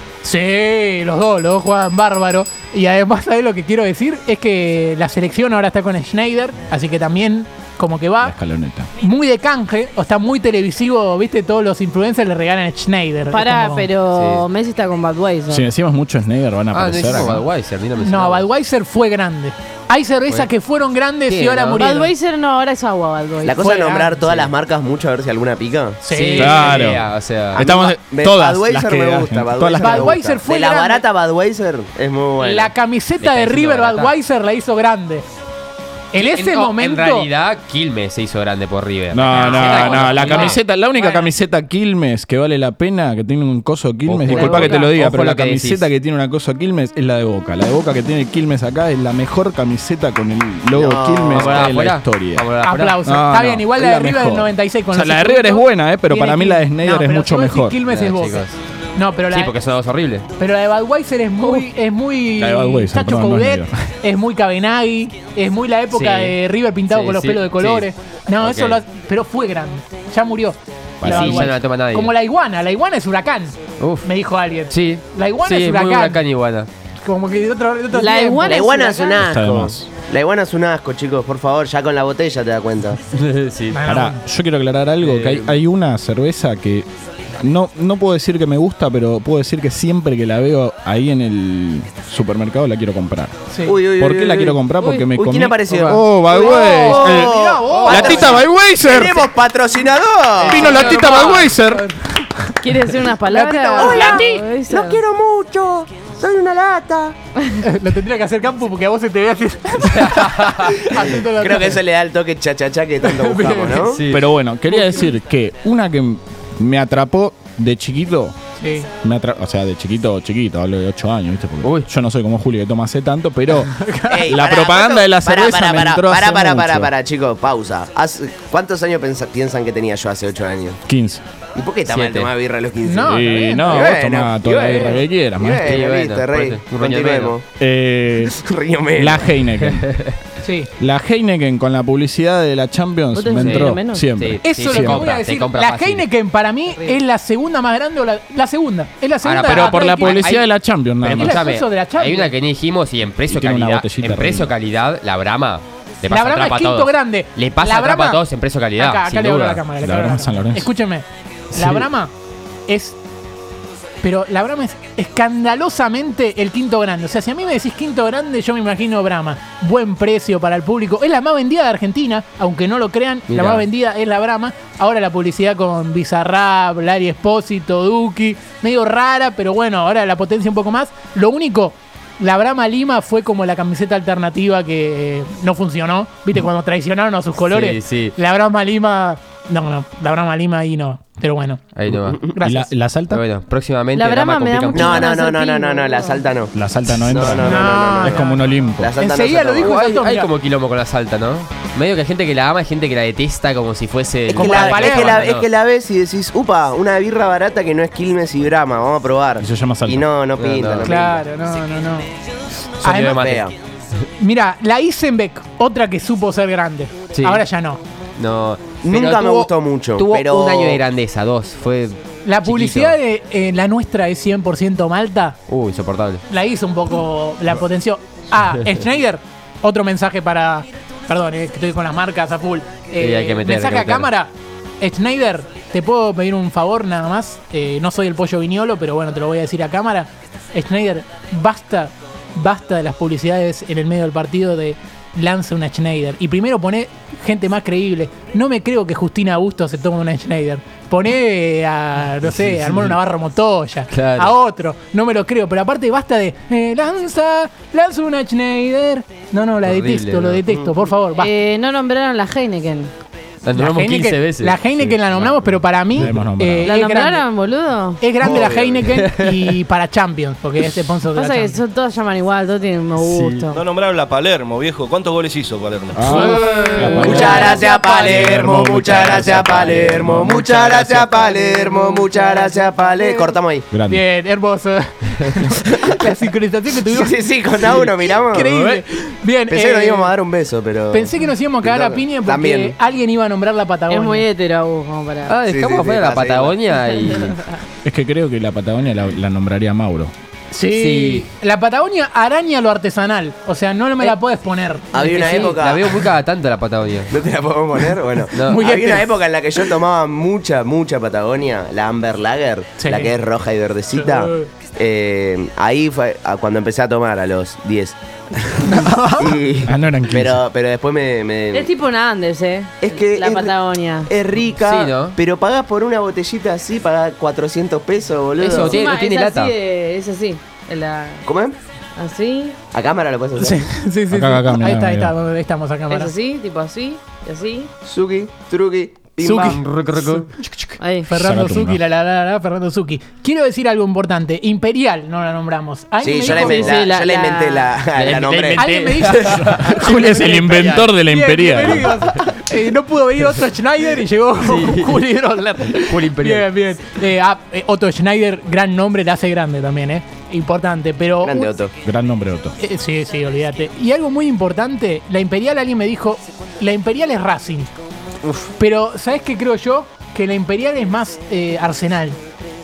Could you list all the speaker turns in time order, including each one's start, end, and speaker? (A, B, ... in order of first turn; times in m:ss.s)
0:00.2-0:08.4 A
0:08.2-0:08.9 B
0:09.0-0:13.9 A
0:13.3-0:15.6 C
0:14.1-0:14.4 D
0:15.5-0:17.5 B
0:16.7-0:18.5 D
0:18.0-0:22.1 A
0:21.3-0:21.9 D
0:21.8-0:23.8 C
0:23.4-0:26.0 E
0:23.7-0:24.1 A
0:24.2-0:24.5 D
0:26.0-0:26.9 A
0:26.1-0:27.7 D
0:26.3-0:30.2 B
0:27.6-0:32.7 E
0:29.8-0:31.0 A
0:32.4-0:35.2 A
0:33.2-0:34.1 D
0:36.1-0:37.3 A
0:36.2-0:40.6 D
0:39.1-0:52.5 B
0:39.3-0:41.3 A
0:44.1-0:45.9 D
0:44.3-0:44.7 A
0:50.7-0:51.7 E
0:51.3-0:53.0 D
0:52.6-0:58.4 A
0:53.0-0:57.8 B
0:57.9-0:58.6 D
0:59.0-0:59.5 A
0:59.3-1:00.3 D
1:00.4-1:16.2 A
1:02.4-1:03.7 B
1:05.9-1:06.4 D
1:06.9-1:07.9 D
1:08.4-1:08.8 D
1:11.0-1:11.6 B
1:11.0-1:12.1 D
1:13.8-1:14.1 D
1:14.7-1:16.7 D
1:17.0-1:18.6 A
1:17.9-1:19.2 C
1:18.4-1:23.0 E
1:19.2-1:19.9 B
1:23.1-1:23.8 D
1:23.7-1:24.2 A
1:23.9-1:26.9 B
1:25.0-1:25.6 D
1:27.4-1:33.3 B
1:33.5-1:33.8 A
1:33.6-1:40.9 E
1:34.0-1:39.3 B
1:34.7-1:35.1 C
1:35.7-1:36.0 D
1:36.4-1:38.5 A
1:40.4-1:41.9 B
1:40.4-1:42.6 A
1:42.6-1:45.0 C
1:43.2-1:44.4 A
1:43.8-1:47.2 E
1:47.6-1:51.8 A
1:49.8-1:50.9 D
1:51.4-1:54.0 E
1:53.0-1:54.0 A
1:53.9-1:54.3 D
1:54.1-1:58.4 B
1:58.6-1:58.9 A
1:59.0-2:06.9 B
2:01.6-2:01.9 D
2:03.6-2:04.4 A
2:04.1-2:10.8 E
2:10.9-2:11.3 B
2:11.6-2:17.4 E
2:11.9-2:12.3 D
2:12.8-2:13.9 A
2:13.0-2:15.8 B
2:15.6-2:17.4 D
2:17.6-2:18.3 B
2:18.2-2:19.3 E
2:19.0-2:20.0 B
2:19.6-2:20.1 D
2:20.4-2:20.7 A
2:20.8-2:25.1 B
2:23.1-2:24.0 C
2:23.4-2:26.0 D
2:24.4-2:30.3 A
2:29.2-2:30.5 D
2:29.5-2:31.4 B
2:31.0-2:39.6 D
2:31.1-2:32.3 A
2:33.3-2:34.5 B
2:36.1-2:38.2 A
2:38.8-2:42.1 A
2:39.8-2:40.7 B
2:41.5-2:41.9 D
2:42.7-2:43.0 A
2:44.0-3:11.6 A
2:53.3-2:53.7 D
3:07.5-3:08.1 D
3:11.8-3:12.2 D
3:12.0-3:12.3 E
3:12.3-3:12.7 A
3:12.4-3:13.2 B
3:13.1-3:15.2 D
3:14.0-3:16.2 C
3:14.7-3:19.8 E
3:16.5-3:18.9 B
3:17.3-3:20.3 A
3:19.6-3:25.5 D
3:24.3-3:31.2 E
3:24.3-3:25.3 A
3:29.4-3:30.1 B
3:30.4-3:30.9 D
3:30.8-3:32.1 A
3:32.8-3:33.4 A
3:32.8-3:33.5 D
3:33.1-3:33.5 E
3:34.2-3:37.8 A
3:37.2-3:37.5 D
3:38.2-3:43.0 D
3:38.8-3:40.8 E
3:42.2-3:45.4 A
3:45.5-3:46.2 D
3:46.3-4:21.3 A
3:53.0-3:54.1 D
4:12.5-4:12.9 B
4:13.9-4:14.3 D
4:19.6-4:20.4 D
4:20.5-4:20.7 E
4:21.1-4:22.9 C
4:23.4-4:26.1 D
4:23.6-4:27.2 A
4:25.9-4:26.7 B
4:26.7-4:28.0 C
4:28.0-4:31.6 A
4:28.2-4:28.8 E
4:29.0-4:29.5 D
4:31.1-4:33.6 C
4:33.0-4:33.5 D
4:33.5-4:36.4 F
4:35.9-4:40.5 B
4:36.1-4:38.6 A
4:36.6-4:37.8 C
4:37.0-4:43.7 E
4:38.0-4:40.2 F
4:40.3-4:41.2 D
4:41.3-4:42.9 C
4:43.0-4:43.3 A
4:43.7-4:44.0 B
4:43.9-4:50.1 A
4:45.6-4:46.0 E
4:46.9-4:48.5 E
4:49.5-4:52.8 E
4:50.9-4:54.2 A
4:53.9-4:55.4 C
4:55.3-4:57.4 D
4:55.5-4:56.6 E
4:57.8-5:00.1 B
5:00.5-5:04.9 A
5:00.7-5:01.3 D
5:04.9-5:06.0 E
5:05.0-5:07.1 D
5:07.1-5:21.7 E
5:08.4-5:08.6 D
5:08.4-5:09.1 A
5:12.8-5:13.1 A
5:13.9-5:14.5 A
5:18.6-5:19.4 A
5:19.6-5:20.4 B
5:21.5-5:24.1 C
5:22.8-5:23.6 E
5:24.1-5:28.8 E
5:24.6-5:25.2 D
5:28.4-5:29.5 D
5:28.4-5:31.3 C
5:31.3-5:31.6 E
5:32.0-5:32.6 C
5:32.7-5:33.6 E
5:33.4-5:36.1 A
5:34.1-5:35.2 B
5:35.9-5:37.7 C
5:37.8-5:39.6 E
5:39.2-5:40.2 A
5:39.3-5:40.8 D
5:40.8-5:41.1 C
5:41.1-5:46.8 A
5:41.1-5:41.8 B
5:46.0-5:48.7 E
5:46.4-5:47.8 C
5:48.0-5:50.9 D
5:48.6-6:01.5 A
5:49.6-5:51.9 B
5:51.9-5:52.2 D
5:54.4-5:55.0 D
5:55.8-5:56.5 D
6:01.2-6:01.7 E
6:01.8-6:02.6 B
6:02.6-6:07.7 A
6:08.6-6:12.2 A